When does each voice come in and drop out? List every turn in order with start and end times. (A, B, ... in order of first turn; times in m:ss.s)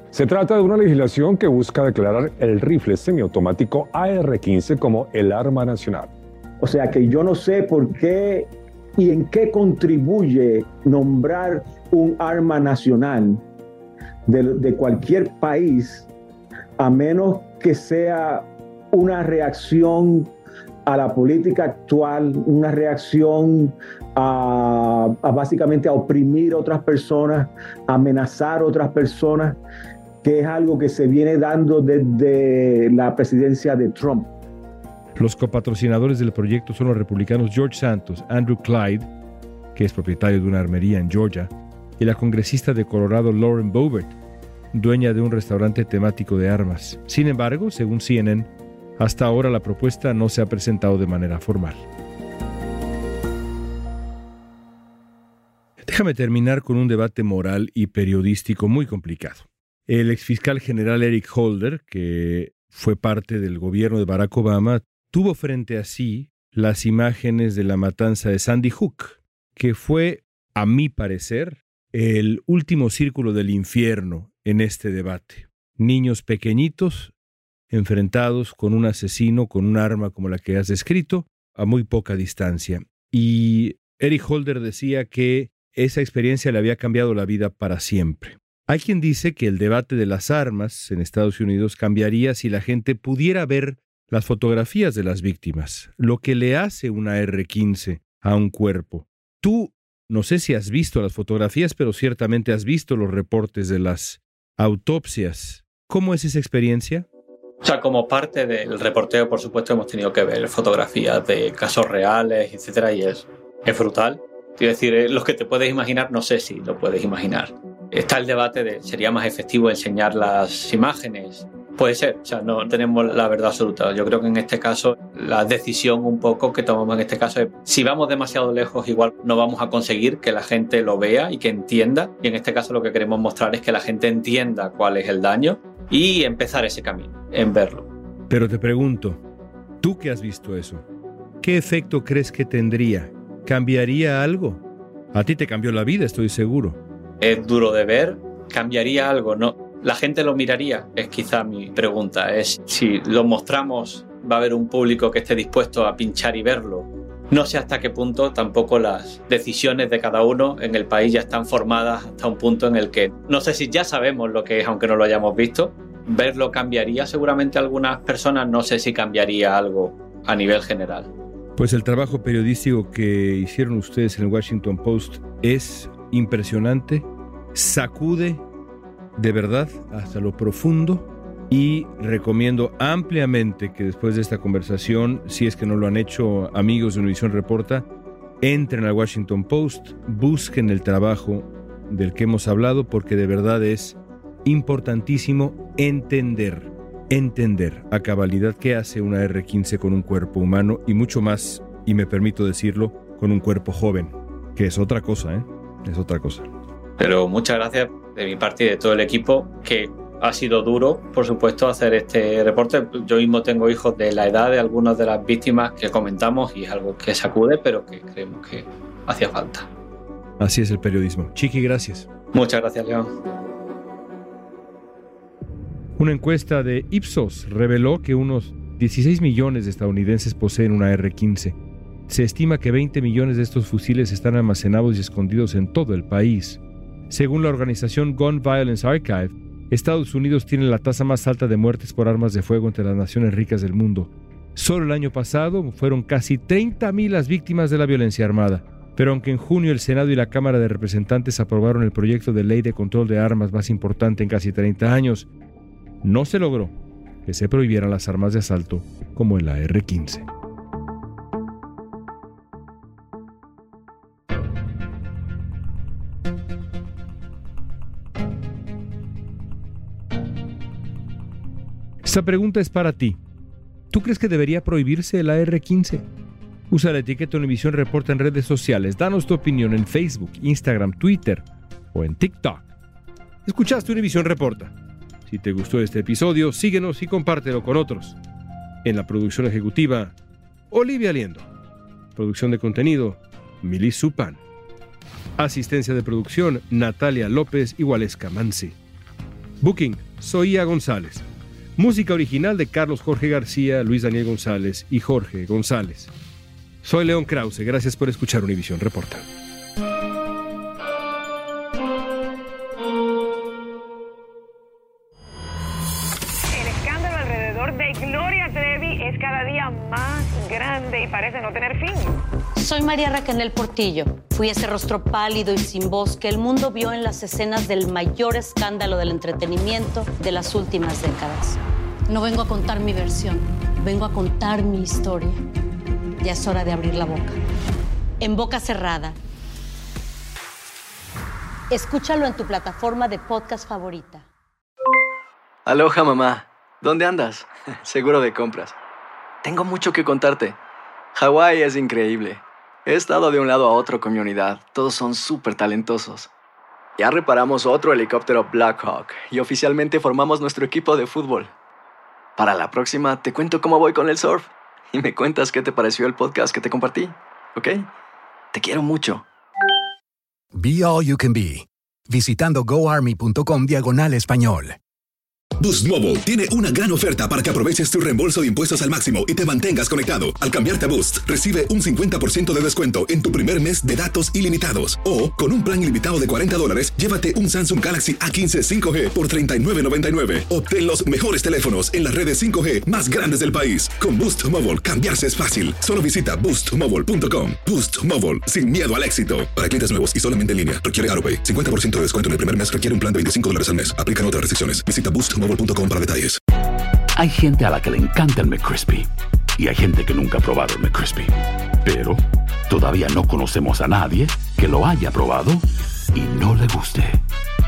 0:00.1-0:06.1 A
0:06.6-0:13.4 B
0:14.3-0:16.1 B
0:16.8-0:20.3 B
0:20.8-0:29.6 B
0:30.2-0:34.3 B
0:35.2-0:39.1 C
0:39.7-0:44.2 C
0:44.7-0:51.8 C
0:55.8-1:17.1 C
1:17.7-1:47.1 C
1:47.6-2:17.9 D
2:18.3-2:19.2 C
2:19.8-2:20.8 C
2:21.4-2:24.6 C
2:25.1-2:26.8 C
2:27.2-2:51.1 D
2:51.6-2:58.4 C
2:59.2-3:07.9 C
3:08.4-3:26.5 C
3:27.0-3:39.7 D
3:40.4-3:42.1 C
3:42.3-3:43.1 D
3:46.0-3:51.6 C
3:52.1-4:15.3 C
4:16.0-4:20.3 C
4:32.0-4:33.2 C
4:33.9-4:36.0 C
4:36.7-4:42.7 C
4:43.4-4:44.7 C
4:45.3-4:48.2 C
4:48.8-4:50.2 C
4:50.7-4:51.5 C
4:52.2-4:54.4 C
4:55.4-4:58.8 C
4:59.6-5:01.2 C
5:01.8-5:06.1 C
5:06.8-5:09.2 C
5:16.5-5:22.2 E
5:22.6-5:35.4 F
5:36.2-5:37.4 F
5:38.2-5:39.2 F
5:41.7-5:44.2 F
5:45.6-5:48.7 G
5:49.4-5:50.6 G
5:51.1-5:56.3 G
5:57.0-6:01.5 G
6:02.4-6:07.9 G
6:08.5-6:09.2 G
6:10.6-6:14.8 H
6:15.6-6:46.4 I
6:47.2-6:51.3 J
6:51.8-6:57.2 J